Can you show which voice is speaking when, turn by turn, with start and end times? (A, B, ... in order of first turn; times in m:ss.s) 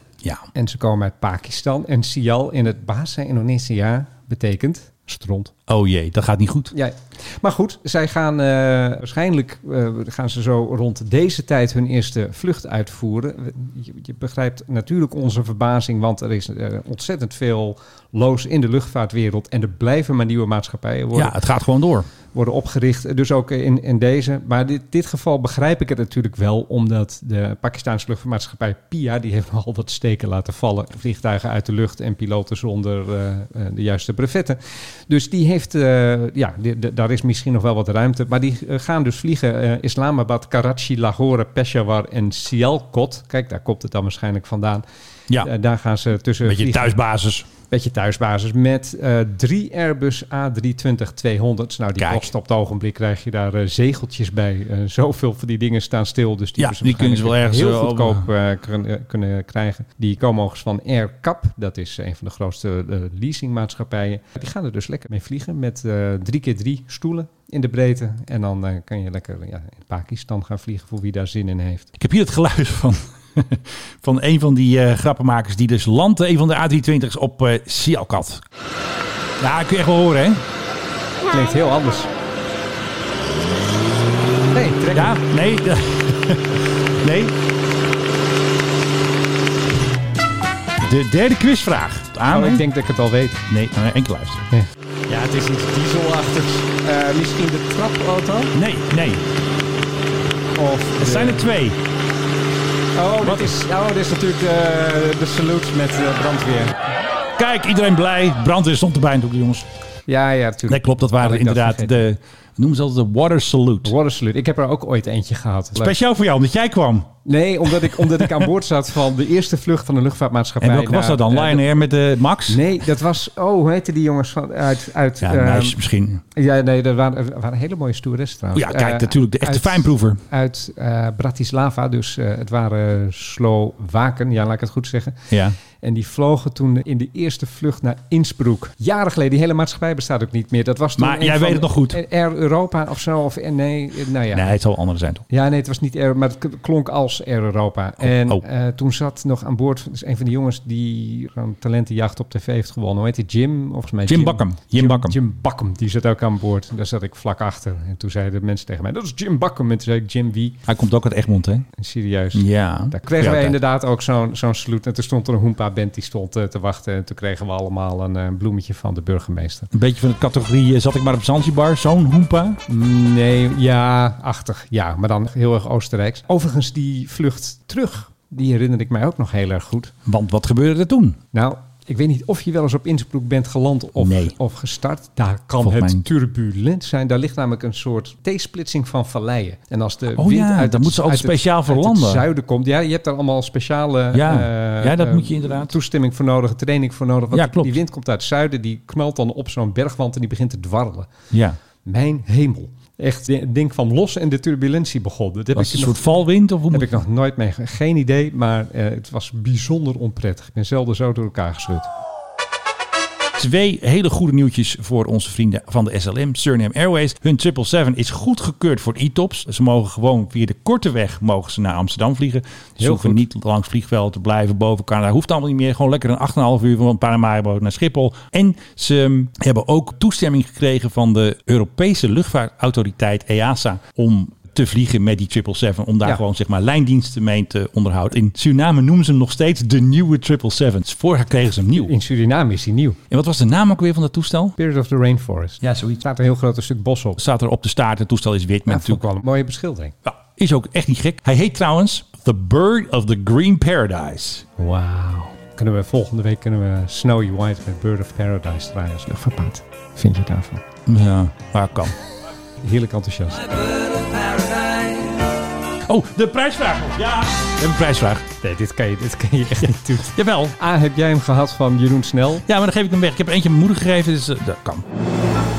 0:00.5-0:05.5 A
0:05.7-0:06.7 B
0:06.7-0:21.3 A
0:21.1-0:22.1 B
0:22.3-0:44.8 A
0:45.4-0:47.0 A
0:46.4-0:47.5 B
0:47.7-1:11.9 A
0:52.0-0:52.3 B
0:56.6-0:58.3 B
1:12.0-1:18.4 B
1:19.4-1:20.4 B
1:21.3-1:22.1 A
1:24.5-1:25.2 A
1:24.9-1:27.4 B
1:30.8-1:32.7 B
1:32.3-1:33.4 A
1:33.5-1:34.5 B
1:34.5-1:38.5 A
1:38.5-1:39.2 B
1:40.6-1:41.4 A
1:41.0-1:41.8 B
1:43.0-1:46.9 A
1:43.2-1:43.6 B
1:47.4-1:49.7 B
1:50.1-1:52.0 A
1:50.7-1:53.9 B
1:53.8-1:56.0 A
1:55.8-1:57.1 B
1:57.3-2:01.7 A
1:58.0-1:58.4 B
2:00.6-2:02.6 B
2:02.5-2:05.8 A
2:05.2-2:06.2 B
2:06.3-2:24.6 A
2:08.5-2:10.2 B
2:15.3-2:15.6 B
2:21.0-2:22.0 B
2:24.3-2:25.2 B
2:25.3-2:40.6 A
2:28.0-2:28.4 B
2:34.1-2:35.2 B
2:40.7-2:41.7 B
2:41.8-2:49.7 A
2:42.3-2:43.6 B
2:49.7-2:52.6 B
2:52.7-2:59.9 A
3:00.1-3:01.2 B
3:01.3-3:21.1 A
3:04.0-3:04.4 B
3:05.6-3:06.1 B
3:10.1-3:12.2 B
3:14.1-3:15.8 B
3:17.3-3:17.8 B
3:21.3-3:21.6 B
3:21.8-3:26.0 A
3:25.6-3:27.0 B
3:26.7-3:31.9 A
3:33.4-4:01.9 B
3:42.8-3:43.2 A
4:01.8-4:03.0 A
4:03.1-4:04.6 B
4:04.6-4:07.2 A
4:05.6-4:06.0 B
4:07.2-4:09.0 B
4:08.7-4:10.0 A
4:10.0-4:14.4 B
4:14.6-4:20.6 A
4:20.9-4:21.9 B
4:22.6-4:23.5 A
4:23.8-4:25.1 B
4:25.9-4:28.3 B
4:28.4-4:32.5 A
4:30.1-4:30.6 B
4:32.5-4:34.8 B